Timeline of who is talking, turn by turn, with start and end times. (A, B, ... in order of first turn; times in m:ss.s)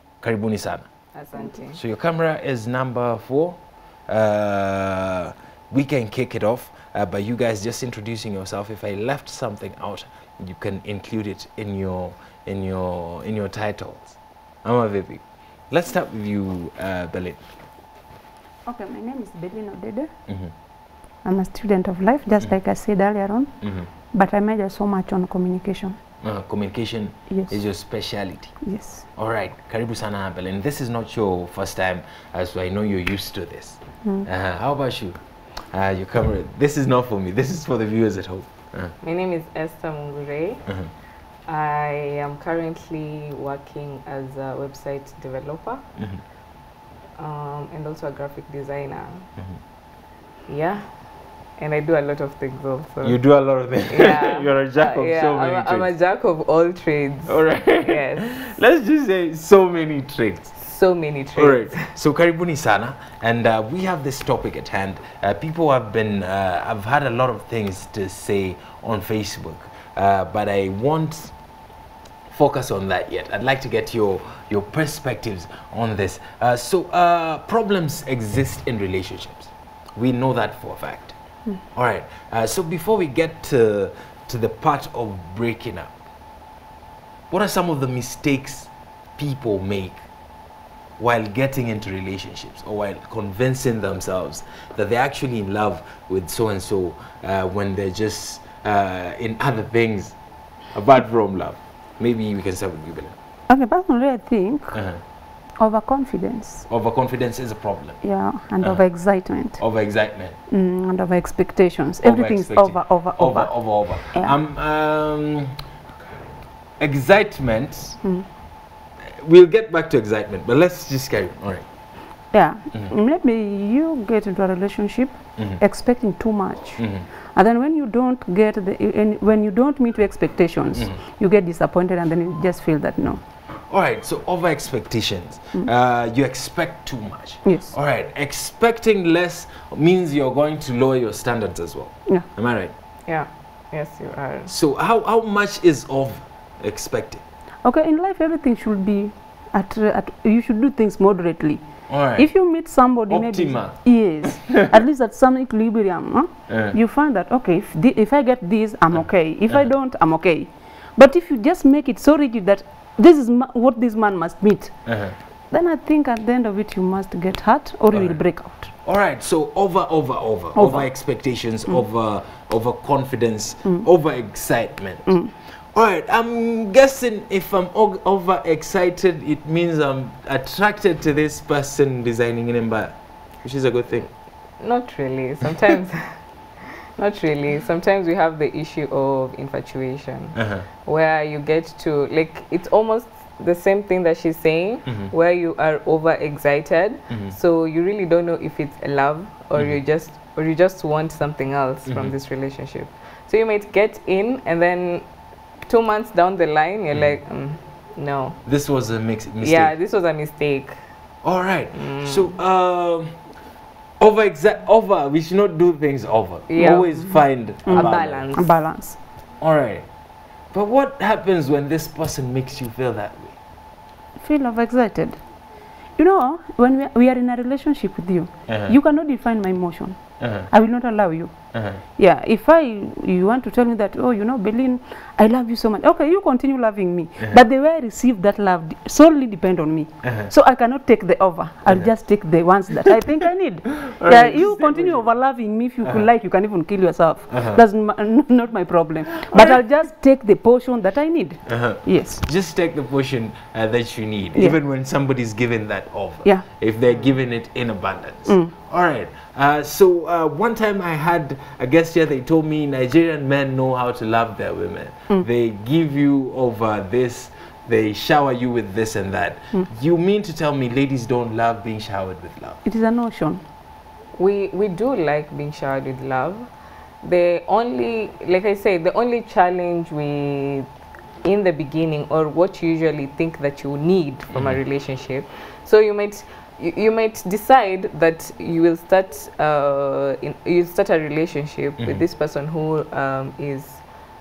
0:00.2-0:00.9 A
0:01.1-0:01.8 B
0:01.7-0:17.4 A
0:18.6-0:20.1 C
0:21.2-0:23.5 C
0:23.6-0:23.9 A
0:24.1-0:26.0 C
0:26.2-0:28.6 A
0:27.3-0:27.6 C
0:28.6-0:29.0 C
0:29.1-0:35.2 A
0:35.7-0:38.9 A
0:39.0-0:40.6 B
0:41.5-0:45.8 B
0:46.0-0:46.2 A
0:47.2-0:49.2 B
0:50.5-0:50.9 B
0:51.6-0:53.2 B
0:53.0-0:55.9 A
0:53.9-0:58.5 B
0:57.2-1:00.5 A
1:00.5-1:01.9 B
1:01.4-1:11.3 A
1:12.3-1:21.1 A
1:21.7-1:26.0 A
1:27.3-1:30.0 A
1:31.0-1:40.1 A
1:40.7-1:43.1 A
1:43.5-1:44.8 C
1:44.7-1:45.0 A
1:45.6-1:46.7 C
1:46.7-1:48.0 A
1:48.0-1:49.6 C
1:49.6-1:50.3 A
1:50.5-1:54.4 C
1:52.0-1:55.5 A
1:56.8-1:58.0 A
1:59.0-2:01.6 A
2:02.3-2:13.2 C
2:06.8-2:07.1 A
2:13.7-2:22.7 A
2:17.4-2:17.7 C
2:23.0-2:24.5 B
2:24.4-2:27.2 A
2:27.6-2:44.8 C
2:31.9-2:32.3 A
2:33.1-2:34.8 A
2:36.5-2:36.8 A
2:44.8-2:45.1 A
2:45.5-2:48.7 C
2:47.9-2:48.2 A
2:48.8-2:55.1 A
2:50.5-2:51.8 C
2:55.0-2:55.3 C
2:55.7-3:04.1 A
3:04.6-3:25.0 B
3:10.3-3:10.7 A
3:14.8-3:15.1 A
3:17.1-3:17.3 A
3:19.5-3:19.8 A
3:21.8-3:22.1 A
3:25.7-3:28.4 B
3:26.9-3:27.2 A
3:28.4-3:29.7 A
3:29.4-3:30.8 B
3:31.2-3:33.1 A
3:31.7-3:32.3 B
3:34.0-3:38.2 A
3:36.5-3:38.6 B
3:37.6-3:39.0 C
3:39.4-3:39.8 A
3:40.5-3:43.4 A
3:44.2-3:45.2 C
3:46.0-3:51.4 C
3:48.5-3:48.8 A
3:50.2-3:50.5 A
3:51.5-3:51.8 A
3:51.9-4:12.2 C
4:00.0-4:00.3 A
4:03.8-4:05.1 A
4:07.3-4:07.6 A
4:09.2-4:09.6 A
4:11.4-4:32.6 A
4:14.3-4:14.6 C
4:16.9-4:17.2 B
4:18.2-4:18.5 C
4:32.6-4:33.4 C
4:34.2-4:36.5 B
4:37.0-4:40.7 B
4:41.2-4:53.8 B
4:44.3-4:44.6 A
4:51.8-4:52.0 A